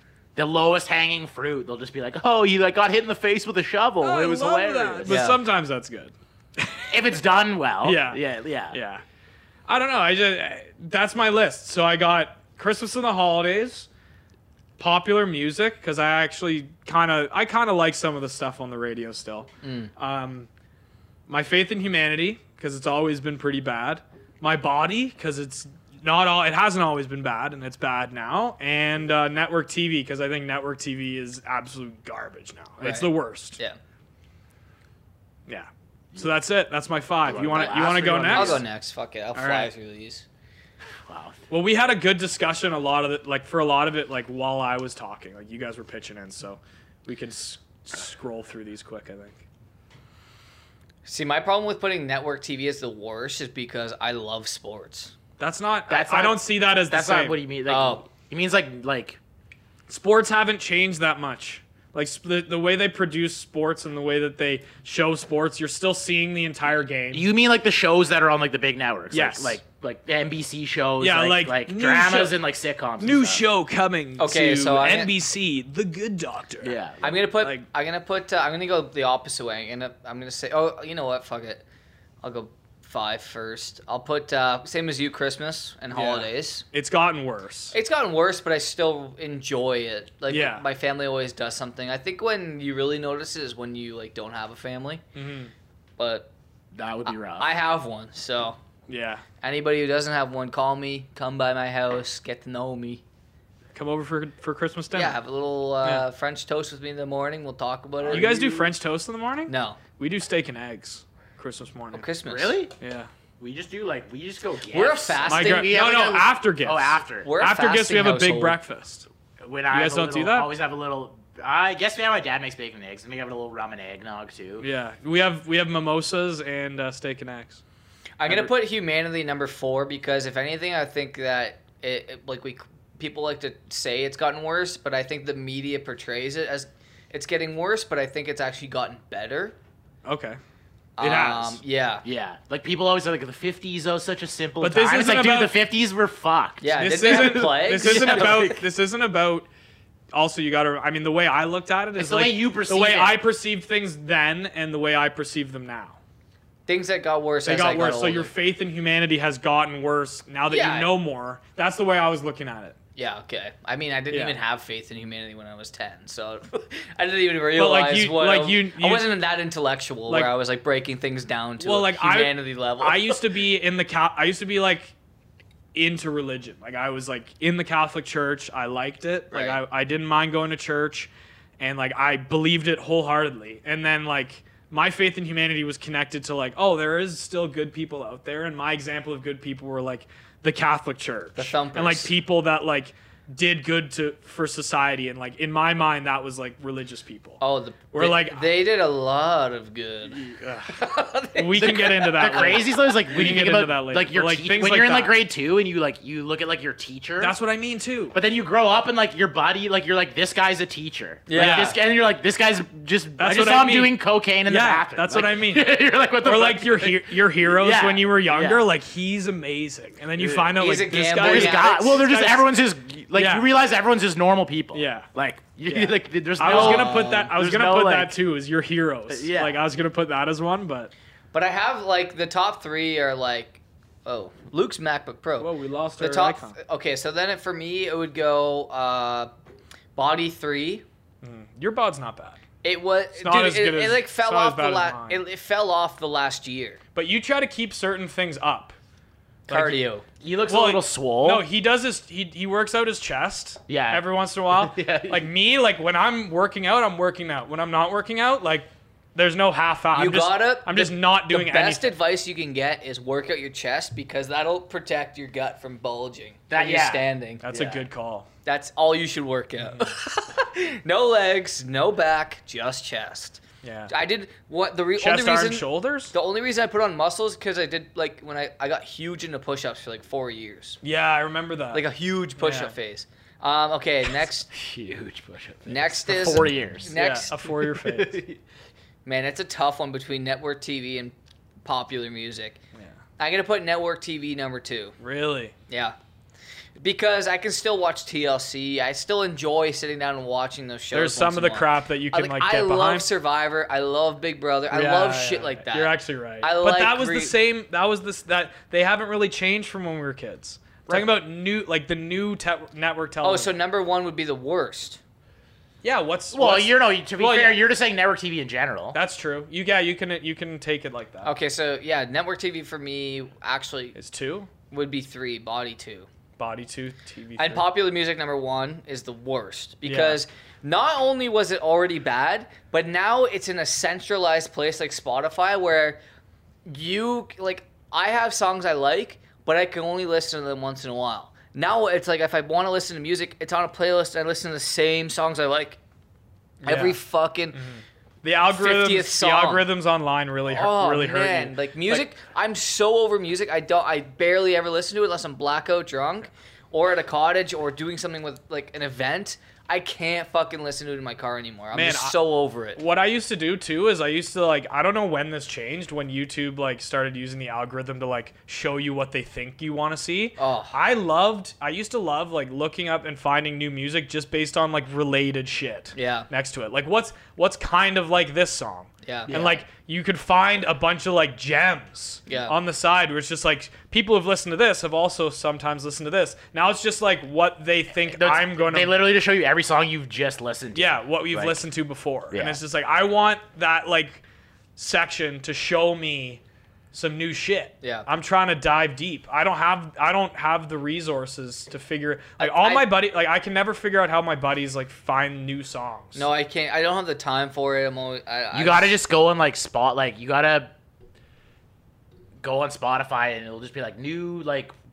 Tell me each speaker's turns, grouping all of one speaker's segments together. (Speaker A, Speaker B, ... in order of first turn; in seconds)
Speaker A: 0.3-5.2, 6.9-8.8, 37.2-38.6, 41.1-41.4, 55.9-59.2, 67.1-73.4, 76.6-77.1, 96.7-97.5, 108.0-108.7, 112.2-112.7, 113.4-117.3, 119.4-124.7, 142.0-148.6, 151.9-153.2, 201.6-207.3, 208.1-218.6, 220.2-220.6, 221.2-228.2, 229.1-229.6, 250.2-251.4, 253.7-255.3, 266.5-267.9, 284.5-288.4, 316.3-319.0, 379.3-379.6, 388.0-391.6, 392.3-392.6, 408.5-410.7, 412.4-414.7
Speaker B: 4.0-7.0, 7.8-9.0, 9.7-13.9, 14.8-20.5, 21.3-33.6, 35.5-38.6, 39.3-39.7, 41.5-49.4, 55.4-57.4, 59.9-67.3, 69.1-69.6, 71.0-72.4, 73.0-76.8, 77.4-77.7, 85.9-87.7, 90.3-90.6, 95.1-95.5, 98.9-99.2, 103.7-105.2, 108.1-112.1, 112.8-113.1, 115.2-119.1, 119.7-120.5, 124.6-127.6, 140.0-140.4, 141.0-141.6, 144.6-145.6, 146.7-149.5, 150.1-156.0, 157.4-162.8, 164.1-164.4, 167.6-169.1, 171.6-174.9, 175.7-197.4, 197.9-198.5, 200.1-200.7, 201.3-205.2, 207.2-208.2, 211.3-211.8, 213.2-222.5, 223.1-223.5, 224.7-225.1, 225.7-230.9, 235.4-236.6, 241.2-242.4, 243.2-245.2, 246.9-248.8, 249.5-249.9, 250.5-261.9, 267.4-268.3, 269.6-269.9, 273.6-273.9, 275.0-276.1, 280.8-281.9, 282.4-282.7, 286.9-288.2, 295.0-295.5, 300.9-303.1, 304.7-313.5, 315.8-317.7, 318.9-321.3, 323.9-324.5, 326.4-327.7, 329.8-330.2, 346.6-347.0, 347.5-352.1, 361.7-362.2, 362.7-389.0, 390.7-394.2, 394.8-396.4, 396.9-406.2
Speaker C: 5.0-5.4, 19.6-19.9, 32.8-33.8, 37.5-40.2, 51.0-55.1, 57.7-58.0, 74.2-75.1, 77.0-81.6, 82.2-86.6, 87.7-95.0, 96.0-96.3, 97.0-98.6, 99.4-103.0, 104.9-108.4, 109.5-109.8, 111.9-112.6, 114.7-115.8, 117.2-118.6, 128.2-139.6, 141.0-142.0, 146.6-148.6, 156.7-158.3, 160.5-160.9, 162.9-173.2, 179.3-179.6, 191.3-192.1, 197.4-202.7, 211.3-211.7, 220.6-221.9, 226.4-227.3, 231.3-239.3, 239.9-240.8, 242.6-246.8, 249.5-250.0, 259.9-267.4, 268.4-280.8, 281.7-284.5, 285.6-287.3, 289.0-292.6, 293.2-294.9, 295.7-295.9, 296.8-307.3, 313.2-315.0, 321.2-323.9, 324.7-326.1, 327.4-336.0, 336.6-345.8, 346.6-347.6, 348.5-349.6, 350.5-362.8, 370.4-370.7, 375.9-376.3, 379.0-379.4, 382.3-382.5, 397.8-398.1, 402.4-402.9, 406.1-409.0